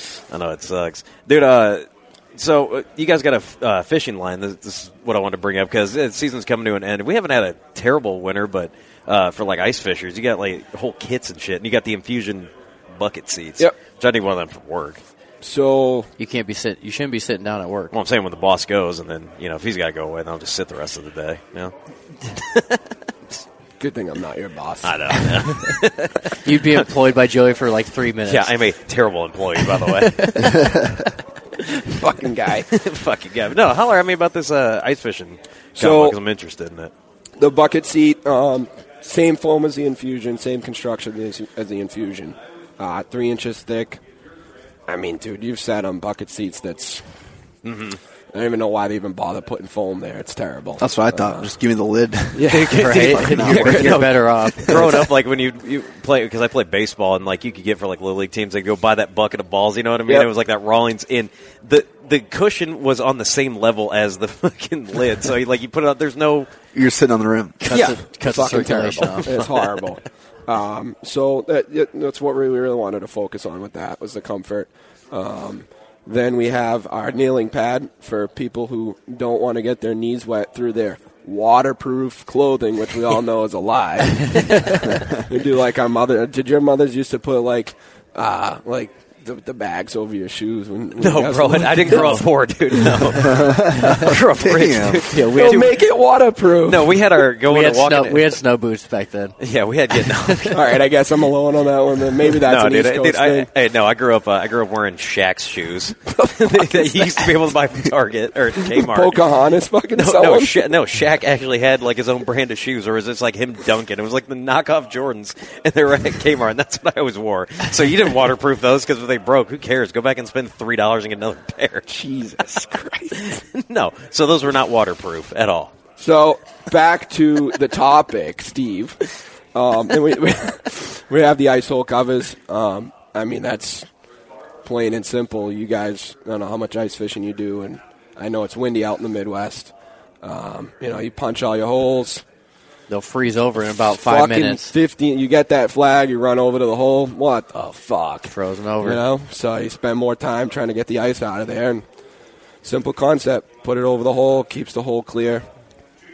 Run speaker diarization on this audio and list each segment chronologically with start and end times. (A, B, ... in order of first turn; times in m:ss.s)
0:00.3-0:15.0 A
0:15.4-0:16.1 B
0:16.2-0:17.9 C
0:17.9-0:21.7 A
0:22.3-0:22.8 A
0:23.8-0:25.5 B
0:24.8-0:26.8 A
0:26.4-0:28.6 C
0:28.2-0:30.7 A
0:29.8-0:30.7 C
0:30.6-0:30.9 D
0:31.8-0:32.7 B
0:32.7-0:36.9 A
0:35.8-0:36.2 B
0:37.4-0:44.0 B
0:44.9-0:47.0 B
0:47.6-0:48.0 A
0:48.3-0:51.5 B
0:50.8-0:54.1 D
0:52.3-0:54.0 B
0:52.5-1:06.5 A
0:52.7-0:55.0 C
0:54.6-0:55.0 D
1:06.7-1:07.6 D
1:07.6-1:09.5 C
1:07.7-1:33.2 B
1:31.0-1:35.8 A
1:31.9-1:32.2 C
1:33.1-1:35.1 D
1:35.0-1:35.8 C
1:35.2-1:37.0 B
1:36.6-1:38.4 A
1:37.4-1:39.4 C
1:39.4-1:40.8 A
1:40.1-1:40.5 C
1:40.5-1:43.5 B
1:42.4-1:49.2 A
1:46.1-1:47.2 B
1:48.7-1:50.7 B
1:49.9-2:01.9 A
2:01.9-2:03.4 B
2:03.3-2:05.7 A
2:06.0-2:13.9 B
2:14.6-2:22.2 B
2:22.9-2:24.7 C
2:23.9-2:31.8 B
2:28.2-2:29.0 C
2:32.6-2:35.4 B